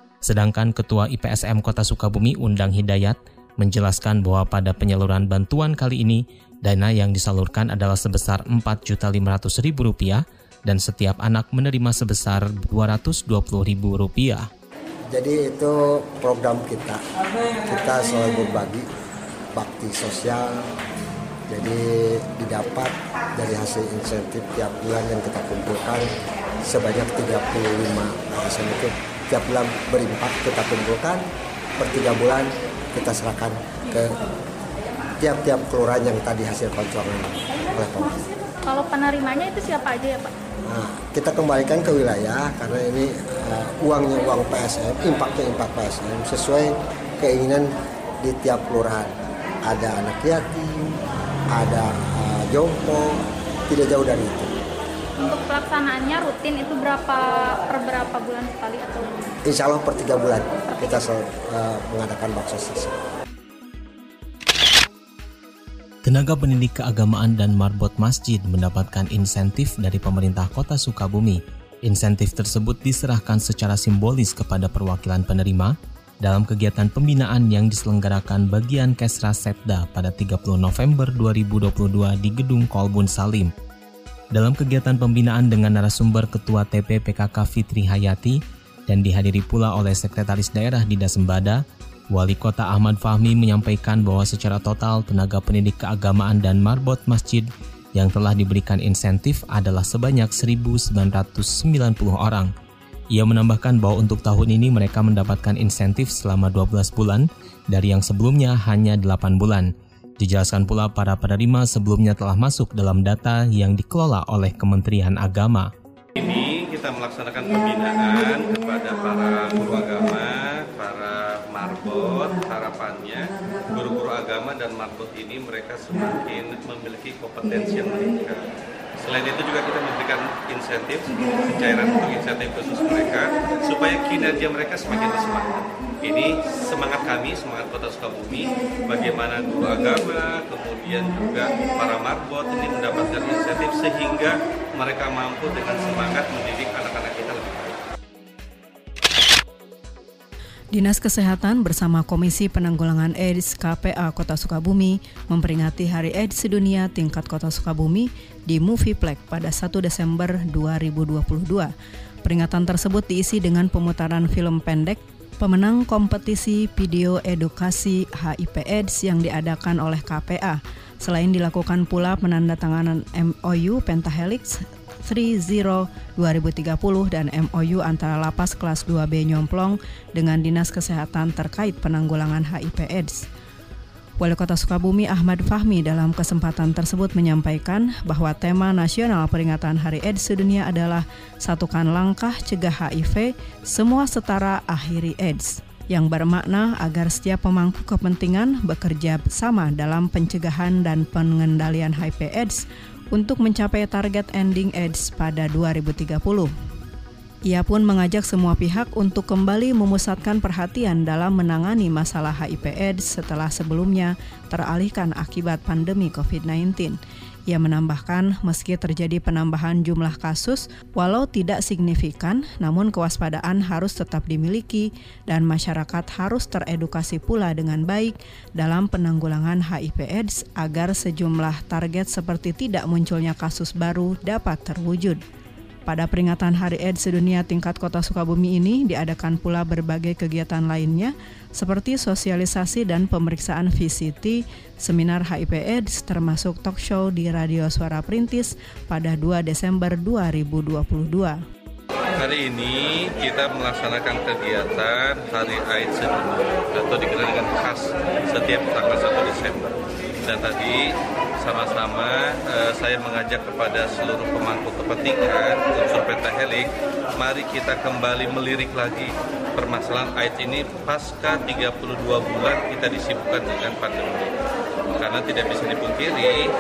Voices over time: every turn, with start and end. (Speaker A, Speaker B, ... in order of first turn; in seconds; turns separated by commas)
Speaker A: 0.2-14.5, Speaker B: 15.1-17.0, Speaker B: 17.6-18.9, Speaker B: 19.5-20.6, Speaker B: 21.5-26.1, Speaker B: 26.6-31.2, Speaker B: 31.8-34.2, Speaker B: 35.2-38.2, Speaker C: 38.6-40.3, Speaker B: 40.6-49.1, Speaker B: 49.6-50.9, Speaker B: 51.5-54.5, Speaker C: 55.2-59.3, Speaker B: 59.5-63.0, Speaker C: 60.7-61.0, Speaker A: 66.0-83.5, Speaker A: 84.3-102.5, Speaker A: 103.1-115.7, Speaker D: 116.2-147.8, Speaker E: 150.7-161.7, Speaker E: 162.2-183.3, Speaker E: 184.2-206.5, Speaker E: 207.5-217.0, Speaker E: 217.5-235.2, Speaker E: 235.9-251.4, Speaker D: 252.1-260.9, Speaker D: 261.4-274.3, Speaker D: 274.9-276.4